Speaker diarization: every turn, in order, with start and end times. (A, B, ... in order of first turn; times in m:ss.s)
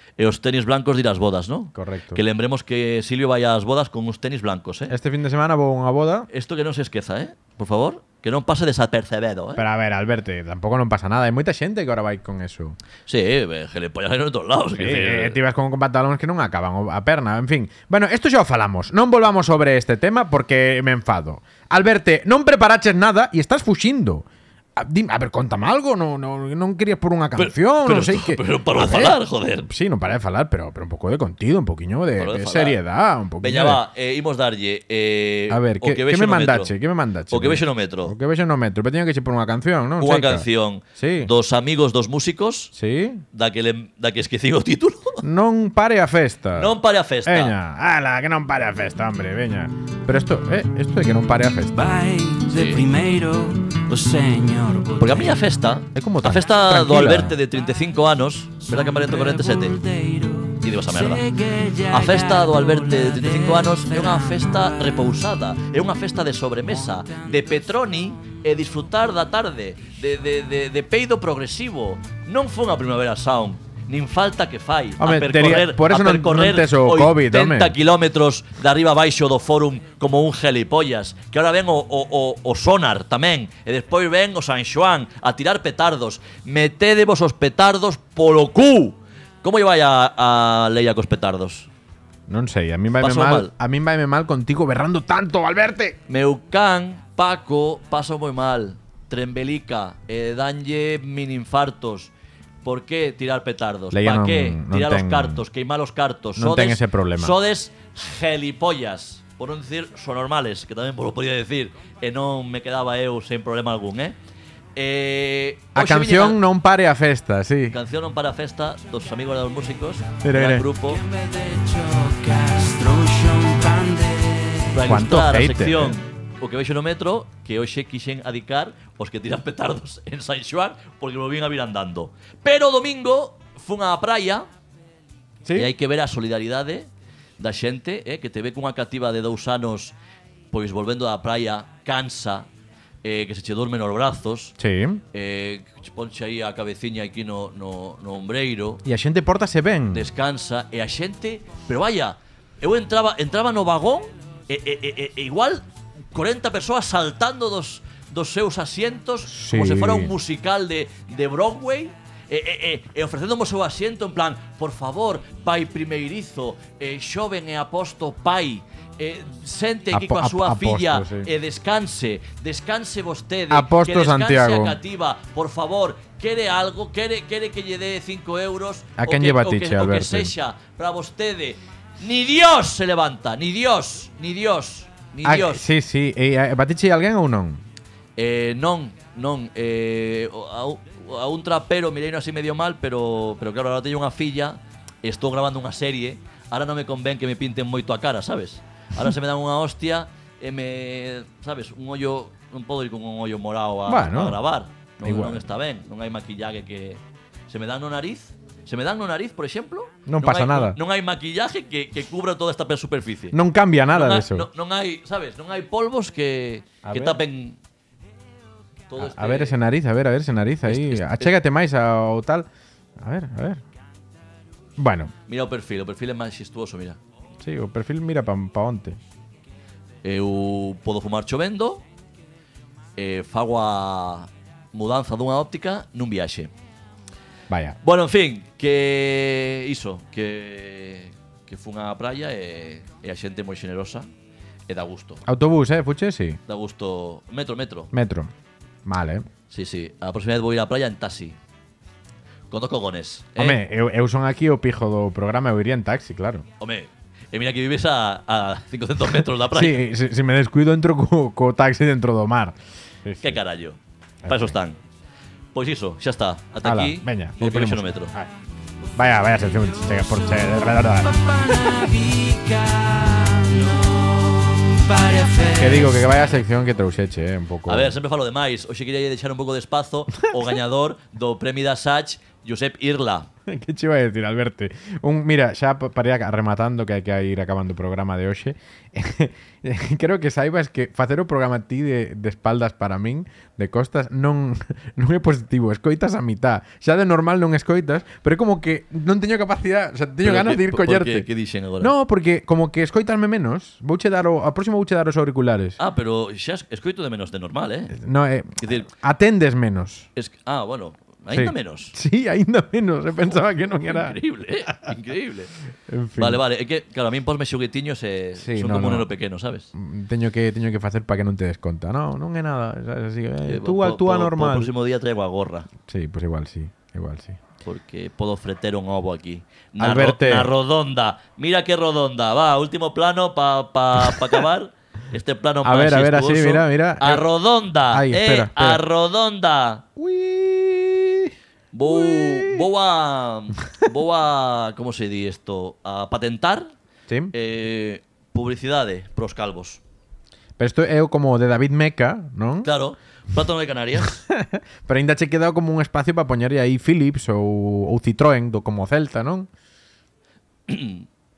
0:00.2-0:05.0 A
0:01.7-0:02.2 B
0:04.9-0:06.3 B
0:06.3-0:09.6 A
0:09.6-0:12.8 B
0:13.1-0:15.4 A
0:14.8-0:24.3 B
0:24.8-0:33.8 B
0:27.4-0:29.7 A
0:32.2-0:32.8 A
0:33.4-0:36.7 A
0:35.5-0:41.3 B
0:37.3-0:38.1 A
0:40.0-0:42.7 A
0:42.8-0:43.2 B
0:43.3-0:45.2 A
0:45.2-0:46.7 B
0:46.6-0:47.5 A
0:47.2-0:52.0 B
0:51.7-0:55.4 C
0:52.5-0:52.9 A
0:55.0-0:59.8 A
0:55.9-0:57.4 B
0:58.6-1:04.9 C
1:00.6-1:01.2 A
1:01.9-1:31.7 A
1:06.6-1:07.8 C
1:15.0-1:17.8 B
1:32.3-1:36.0 B
1:33.0-1:33.5 A
1:36.1-1:42.1 A
1:42.6-1:54.2 A
1:43.9-1:45.4 B
1:46.4-1:47.3 B
1:54.8-1:56.4 A
1:55.8-1:57.8 B
1:57.7-2:01.0 A
2:00.2-2:00.7 B
2:00.8-2:04.8 C
2:04.7-2:14.5 A
2:04.8-2:06.0 B
2:15.4-2:15.7 B
2:15.6-2:20.0 A
2:20.5-2:22.5 A
2:23.0-2:24.6 A
2:24.6-2:25.0 B
2:25.1-2:28.8 A
2:28.8-2:30.1 B
2:29.9-3:05.7 A
2:39.2-2:40.1 B
2:49.9-2:51.3 B
2:53.5-2:54.8 B
2:59.0-3:00.3 B
3:05.2-3:07.6 B
3:08.2-3:33.4 A
3:23.9-3:24.4 B
3:25.0-3:25.4 B
3:30.1-3:30.8 B
3:33.3-3:34.5 B
3:33.9-3:37.6 A
3:36.8-3:37.2 B
3:38.9-3:39.6 A
3:39.0-3:42.5 B
3:40.7-3:41.3 A
3:43.0-3:43.6 B
3:44.8-3:45.1 B
3:45.3-3:47.0 A
3:47.4-3:49.0 B
3:50.0-3:51.8 A
3:53.0-3:56.5 A
3:57.5-3:57.8 B
3:57.8-4:04.1 A
4:04.7-4:05.2 A
4:05.3-4:06.4 B
4:06.5-4:07.9 A
4:07.9-4:08.3 B
4:08.9-4:09.3 B
4:09.5-4:11.4 A
4:12.5-4:13.6 A
4:13.4-4:16.5 B
4:16.6-4:19.8 A
4:19.5-4:23.4 B
4:23.2-4:24.8 A
4:24.2-4:24.6 B
4:25.5-4:28.1 A
4:26.6-4:28.3 B
4:29.0-4:31.1 B
4:30.2-4:36.1 C
4:35.6-4:37.9 B
4:37.7-4:43.3 A
4:43.5-5:01.3 B
5:00.2-5:01.9 A
5:01.8-5:05.8 B
5:05.8-5:08.0 A
5:07.9-5:10.1 B
5:10.2-5:12.0 A
5:11.3-5:14.2 B
5:13.3-5:15.5 A
5:15.9-5:16.4 B
5:16.2-5:19.7 A
5:18.4-5:19.1 B
5:19.7-5:24.7 B
5:23.5-5:25.7 A
5:25.9-5:27.4 B
5:27.6-5:39.8 A
5:29.8-5:30.5 B
5:35.6-5:37.2 B
5:37.9-5:38.8 B
5:40.0-5:41.3 B
5:41.7-5:46.7 A
5:41.9-5:42.6 B
5:47.3-5:49.8 A
5:50.6-5:52.7 B
5:52.6-5:54.2 A
5:54.3-5:59.5 B
6:00.7-6:01.1 A